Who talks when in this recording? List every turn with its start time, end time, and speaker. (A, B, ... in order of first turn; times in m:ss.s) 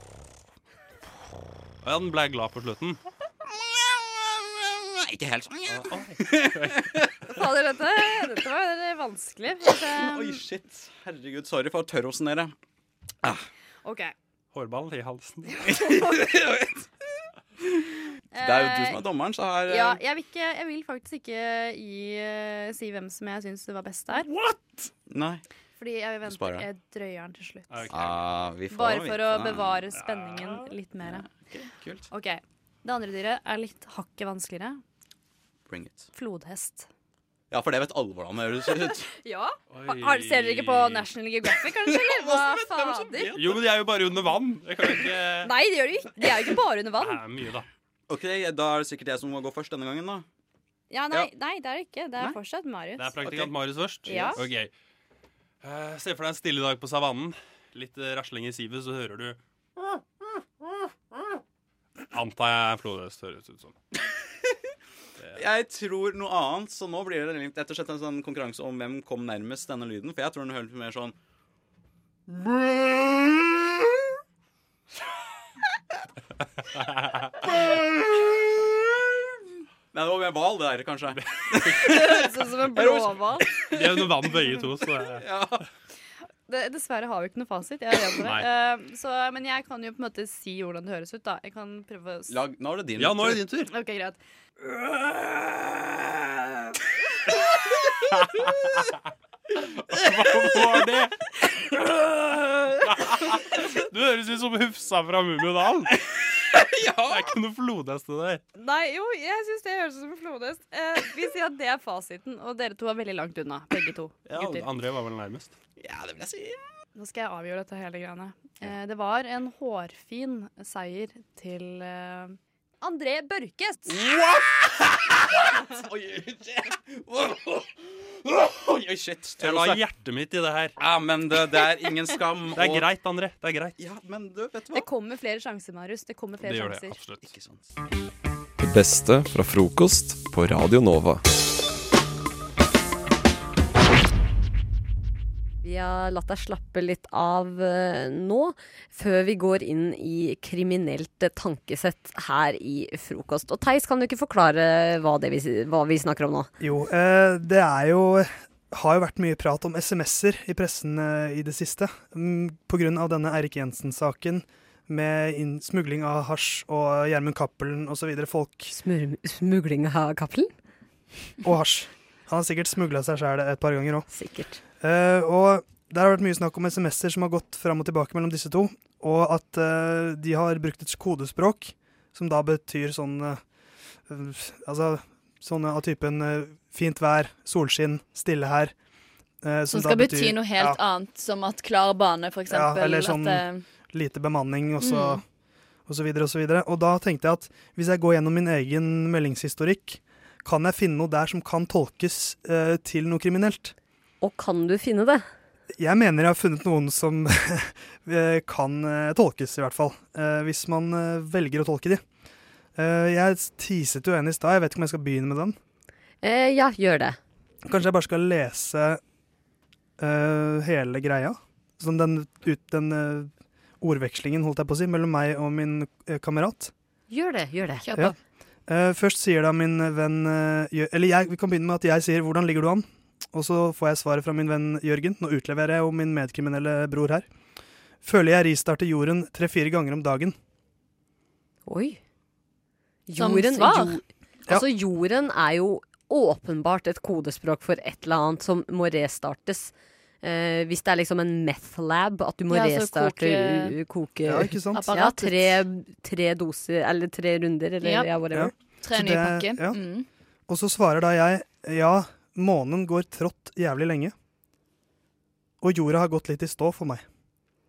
0:01.8-0:03.0 A
0:03.5-0:07.1 B
0:05.7-0:07.0 A
0:07.3-0:10.4 C
0:09.8-0:12.5 B
0:13.8-0:14.1 C
0:14.5-0:15.6 A
0:15.6-0:16.8 B
0:17.6-0:20.0 B
0:18.3-0:19.0 C
0:19.7-0:24.3 C
0:24.3-0:24.6 A
0:25.1-0:25.4 B
0:25.8-0:28.0 C
0:26.2-0:26.7 B
0:27.7-0:28.2 A
0:27.9-0:29.7 B
0:28.7-0:31.3 C
0:29.9-0:30.7 A
0:31.0-0:32.0 B
0:32.1-0:34.8 C
0:35.7-0:36.1 B
0:36.1-0:36.9 C
0:37.5-0:39.1 B
0:39.1-0:43.4 C
0:39.7-0:41.1 A
0:41.8-0:43.6 B
0:43.3-0:45.5 A
0:45.4-0:47.2 C
0:47.0-0:47.7 A
0:48.1-0:50.2 B
0:50.9-0:53.1 C
0:53.0-0:54.7 A
0:53.2-0:54.4 B
0:54.0-0:54.4 C
0:55.6-0:59.4 A
1:02.1-1:03.7 A
1:05.3-1:11.1 B
1:12.4-1:13.2 B
1:17.4-1:18.2 B
1:19.9-1:24.3 B
1:21.6-1:21.8 A
1:21.8-1:23.5 C
1:23.7-1:25.2 A
1:24.9-1:25.6 B
1:26.5-1:32.4 C
1:32.3-1:33.4 B
1:33.0-1:33.7 A
1:33.7-1:34.2 C
1:38.1-1:38.9 A
1:39.9-1:41.2 A
1:39.9-1:40.8 B
1:41.9-1:45.9 A
1:45.9-1:47.3 B
1:47.1-1:48.4 A
1:48.6-1:54.6 C
1:54.3-1:55.5 A
1:55.8-1:56.6 B
1:57.0-2:04.1 C
2:03.9-2:09.8 B
2:09.4-2:10.8 A
2:10.8-2:12.9 B
2:12.5-2:13.8 A
2:13.8-2:14.9 B
2:14.7-2:17.0 C
2:16.4-2:17.3 A
2:17.2-2:17.6 B
2:18.6-2:21.2 D
2:25.6-2:36.5 E
2:36.6-2:48.7 F
2:48.7-2:50.5 E
2:51.4-2:54.1 F
2:54.1-2:54.6 E
2:54.8-3:03.4 F
3:04.1-3:08.7 F
3:09.4-3:10.8 F
3:09.7-3:13.6 G
3:12.5-3:15.2 F
3:14.8-3:15.2 G
3:15.9-3:23.7 F
3:24.2-3:25.2 E
3:25.8-3:32.0 F
3:32.8-3:35.5 F
3:36.2-3:37.2 E
3:37.7-3:39.0 F
3:40.0-3:46.7 F
3:47.1-3:47.9 E
3:47.8-3:48.1 G
3:48.7-3:57.2 F
3:58.0-4:00.3 F
4:01.6-4:02.0 E
4:03.1-4:18.5 E
4:03.2-4:04.0 G
4:12.5-4:13.8 G
4:14.2-4:14.9 F
4:14.7-4:15.6 G
4:17.8-4:18.2 G
4:18.3-4:19.8 F
4:18.8-4:20.1 G
4:20.5-4:24.1 F
4:25.6-4:27.0 F